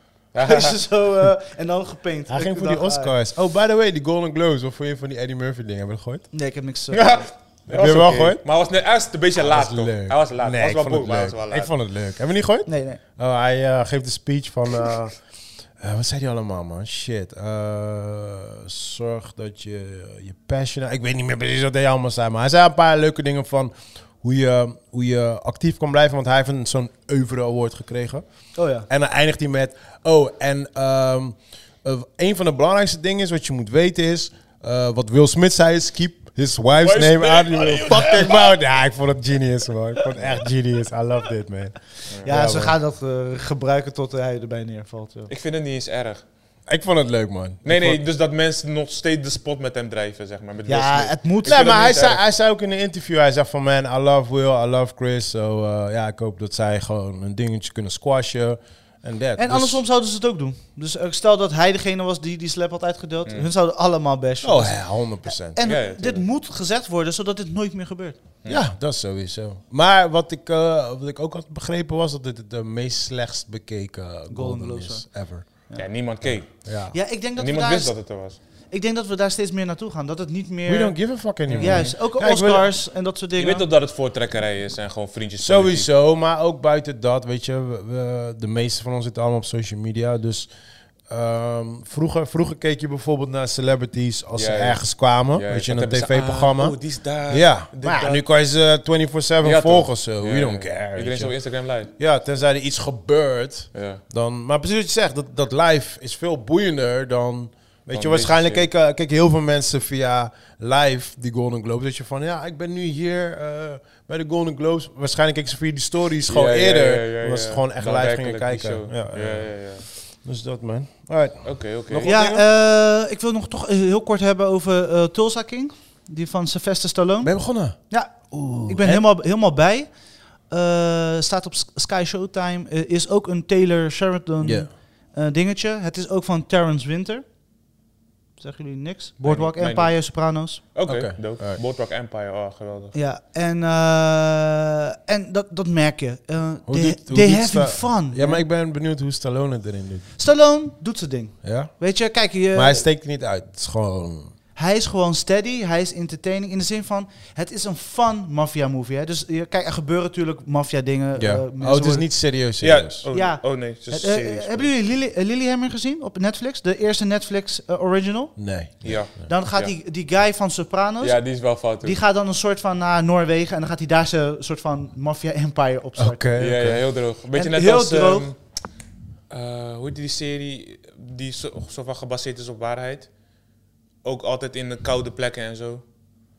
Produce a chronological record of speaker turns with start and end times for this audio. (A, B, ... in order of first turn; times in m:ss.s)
0:00.3-0:00.8 A
0:00.4-0:03.1 B
0:02.3-0:06.3 C
0:06.3-0:07.2 B
0:06.9-0:11.7 A
0:07.7-0:08.4 C
0:09.4-0:15.2 C
0:12.6-0:13.0 B
0:15.8-0:28.2 C
0:28.5-0:28.9 B
0:28.8-0:42.8 C
0:36.8-0:38.4 A
0:42.2-0:45.3 B
0:45.3-0:46.2 A
0:46.7-0:48.0 C
0:47.6-0:52.2 A
0:50.7-0:51.7 B
0:51.4-0:59.8 C
0:59.4-1:08.2 B
1:04.4-1:05.6 C
1:05.6-1:06.2 A
1:08.5-1:15.5 C
1:14.3-1:15.8 B
1:15.7-1:16.7 A
1:16.2-1:17.0 C
1:16.9-1:18.0 B
1:17.3-1:18.4 A
1:18.7-1:23.6 B
1:20.6-1:22.7 C
1:21.5-1:21.9 A
1:23.4-1:25.9 A
1:25.4-1:30.5 C
1:31.1-1:41.3 C
1:34.3-1:38.2 A
1:39.4-1:41.9 A
1:41.9-2:02.4 C
1:43.7-1:44.0 A
1:47.9-1:48.6 A
1:56.3-1:59.9 A
2:01.4-2:02.1 A
2:02.0-2:07.3 B
2:07.2-2:09.0 C
2:07.9-2:09.9 B
2:10.5-2:17.2 B
2:14.4-2:14.7 C
2:18.4-2:20.6 B
2:19.2-2:20.0 A
2:20.7-2:22.9 A
2:20.9-2:21.6 C
2:22.9-2:28.4 B
2:26.6-2:30.1 C
2:30.2-2:32.8 B
2:31.4-2:31.7 C
2:32.5-2:34.3 C
2:34.6-2:42.1 B
2:41.2-2:43.0 C
2:42.6-2:44.7 A
2:43.1-2:48.4 B
2:48.4-2:49.3 C
2:48.8-2:49.7 A
2:49.3-2:56.3 B
2:51.0-2:52.0 A
2:56.0-2:56.8 C
2:56.4-2:58.6 A
2:57.3-2:58.3 B
2:59.3-3:03.1 A
3:04.0-3:05.8 A